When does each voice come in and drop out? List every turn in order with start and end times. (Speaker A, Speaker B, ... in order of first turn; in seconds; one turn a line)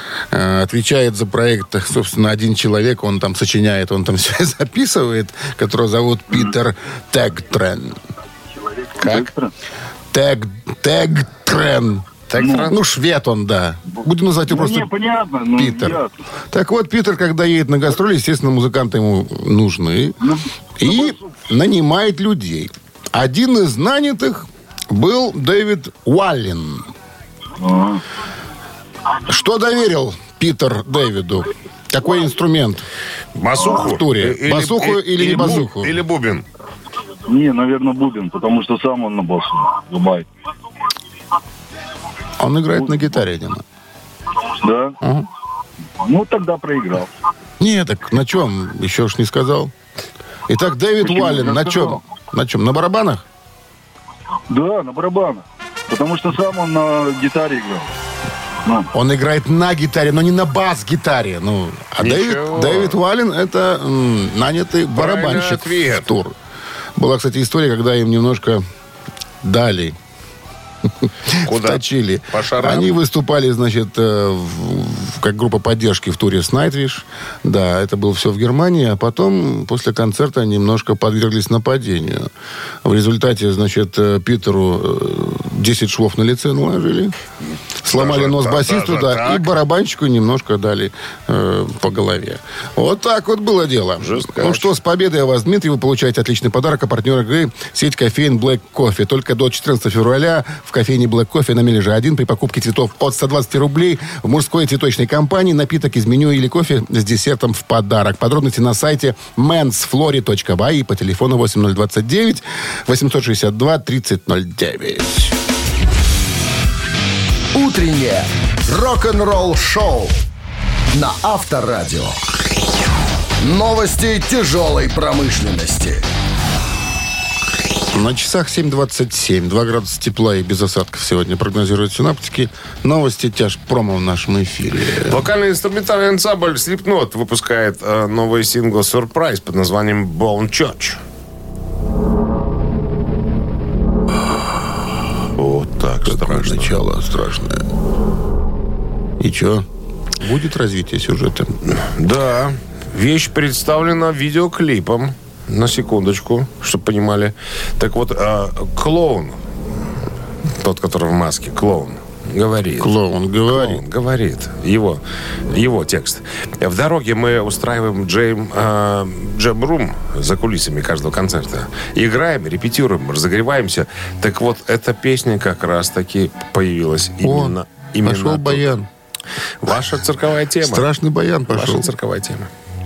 Speaker A: 0.3-8.0
Speaker B: 8.7-9.5
Speaker C: 9.0-9.3
Speaker A: 10.1-12.1
Speaker C: 12.3-12.8
Speaker B: 12.4-12.7
Speaker A: 12.6-14.9
Speaker B: 14.5-16.1
Speaker A: 15.6-20.2
Speaker B: 20.2-21.2
Speaker A: 20.8-26.9
Speaker B: 27.6-28.0
Speaker A: 29.3-32.9
Speaker C: 33.4-36.4
Speaker A: 33.7-35.9
Speaker B: 37.3-40.3
Speaker A: 42.4-43.6
Speaker B: 42.7-43.1
Speaker B: 44.5-45.0
Speaker A: 45.0-45.3
Speaker B: 46.0-47.1
Speaker A: 47.6-49.7
Speaker A: 50.5-53.2
Speaker B: 51.0-52.0
Speaker B: 54.5-57.9
Speaker B: 58.6-58.9
Speaker A: 58.9-66.3
Speaker C: 62.0-63.0
Speaker C: 64.9-66.1
Speaker A: 67.0-68.6
Speaker A: 69.4-70.0
Speaker A: 70.9-82.3
Speaker C: 71.4-72.9
Speaker A: 82.8-87.1
Speaker A: 87.8-115.3
Speaker C: 87.9-89.5
Speaker C: 94.0-94.7
Speaker D: 117.5-120.2
Speaker D: 120.9-122.2
Speaker D: 123.4-126.0
Speaker A: 127.9-135.3
Speaker C: 135.1-141.0
Speaker C: 145.3-146.7
Speaker A: 146.0-147.6
Speaker A: 149.2-149.7
Speaker A: 150.2-151.6
Speaker C: 151.6-159.4
Speaker C: 160.6-162.9
Speaker A: 162.8-163.8
Speaker C: 163.5-178.7
Speaker A: 177.2-178.9
Speaker C: 179.6-180.8
Speaker A: 180.6-181.9
Speaker C: 181.5-182.5